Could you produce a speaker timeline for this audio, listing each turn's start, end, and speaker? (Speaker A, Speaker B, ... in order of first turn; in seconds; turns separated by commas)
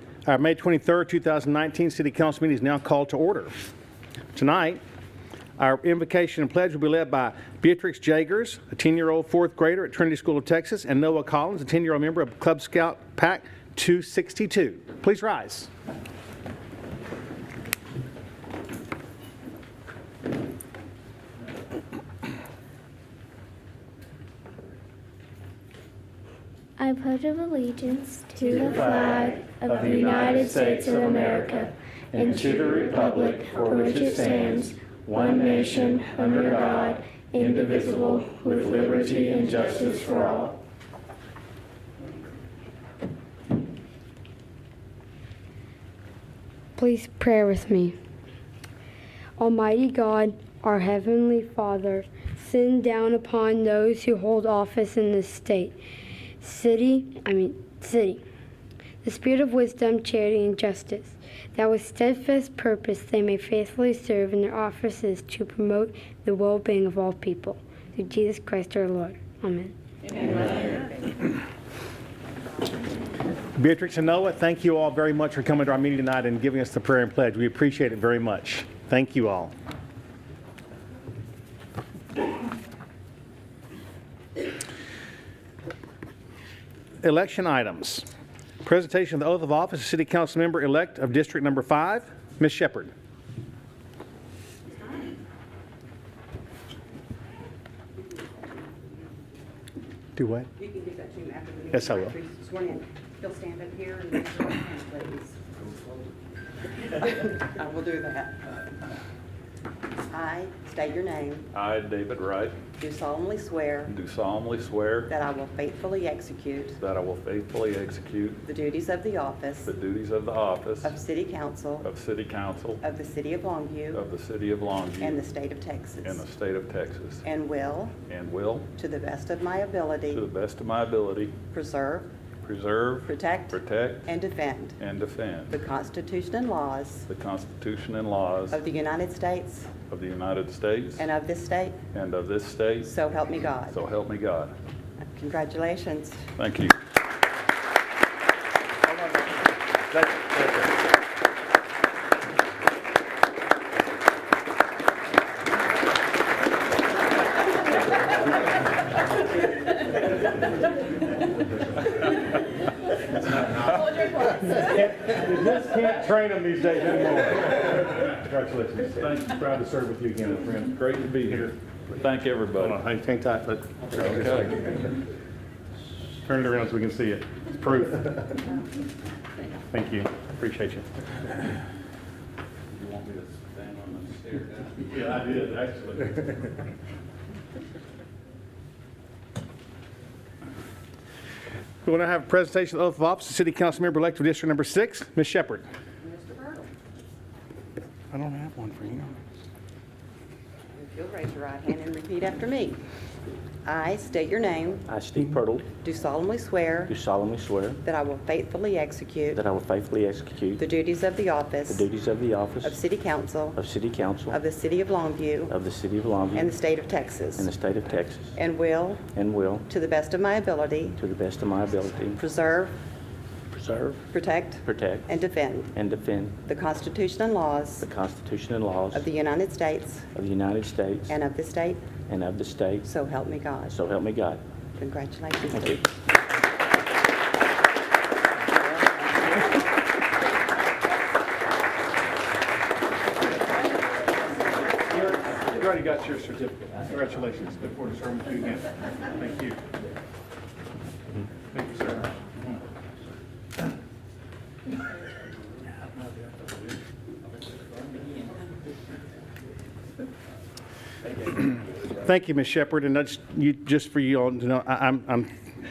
Speaker A: 0.2-3.5, Speaker A: 4.3-4.8, Speaker A: 5.6-15.7, Speaker B: 26.8-31.6, Speaker A: 28.5-40.5, Speaker B: 32.4-40.3, Speaker C: 46.8-47.9, Speaker C: 49.4-55.8, Speaker C: 56.4-58.2, Speaker C: 59.0-70.5, Speaker A: 73.6-79.5, Speaker A: 87.0-88.0, Speaker A: 88.6-92.9, Speaker A: 100.2-100.5, Speaker D: 100.6-105.4, Speaker A: 101.7-102.1, Speaker D: 106.9-108.4, Speaker D: 110.1-111.5, Speaker E: 111.5-112.5, Speaker D: 112.8-113.9, Speaker E: 113.8-115.1, Speaker D: 115.1-116.8, Speaker E: 116.8-118.4, Speaker D: 118.4-119.7, Speaker E: 119.6-121.0, Speaker D: 120.8-121.9, Speaker E: 121.8-122.8, Speaker D: 122.8-124.0, Speaker E: 123.9-125.2, Speaker D: 125.0-126.2, Speaker E: 126.0-127.2, Speaker D: 127.2-128.0, Speaker E: 128.1-128.7, Speaker D: 128.7-130.2, Speaker E: 130.1-131.3, Speaker D: 131.5-132.1, Speaker E: 132.4-134.1, Speaker D: 133.0-134.8, Speaker E: 134.8-135.6, Speaker D: 135.5-137.1, Speaker E: 137.1-138.6, Speaker D: 138.5-139.7, Speaker E: 139.9-141.1, Speaker D: 141.0-141.8, Speaker E: 141.9-143.0, Speaker D: 142.8-143.8, Speaker E: 143.6-144.5, Speaker D: 145.1-146.3, Speaker E: 146.4-146.7, Speaker E: 150.0-150.5, Speaker A: 164.3-171.5, Speaker E: 171.9-172.8, Speaker A: 172.6-174.8, Speaker E: 174.0-174.5, Speaker A: 176.2-178.4, Speaker A: 179.7-180.8, Speaker E: 182.7-185.2, Speaker A: 184.9-186.2, Speaker A: 191.8-195.7, Speaker D: 196.0-196.7, Speaker A: 198.1-199.2, Speaker D: 200.7-202.8, Speaker D: 203.6-204.8, Speaker F: 204.9-205.7, Speaker D: 205.8-206.9, Speaker F: 206.9-207.8, Speaker D: 207.8-209.4, Speaker F: 209.3-210.7, Speaker D: 210.6-211.8, Speaker F: 211.7-212.8, Speaker D: 212.6-213.6, Speaker F: 213.5-214.4, Speaker D: 214.3-215.6, Speaker F: 215.5-216.6, Speaker D: 216.3-217.5, Speaker F: 217.4-218.3, Speaker D: 218.3-219.1, Speaker F: 219.1-219.7, Speaker D: 219.7-221.0, Speaker F: 220.9-222.2, Speaker D: 222.2-222.8, Speaker F: 223.5-224.0, Speaker D: 224.1-225.7, Speaker F: 224.6-225.1, Speaker F: 225.7-226.4, Speaker D: 226.4-227.9, Speaker F: 227.8-229.1, Speaker D: 228.9-230.1, Speaker F: 230.1-231.2, Speaker D: 231.1-231.9, Speaker F: 232.1-232.9, Speaker D: 232.8-233.8, Speaker F: 233.7-234.4, Speaker D: 234.8-235.8, Speaker F: 235.5-235.8, Speaker A: 244.9-249.6, Speaker A: 251.5-252.1, Speaker A: 261.9-265.3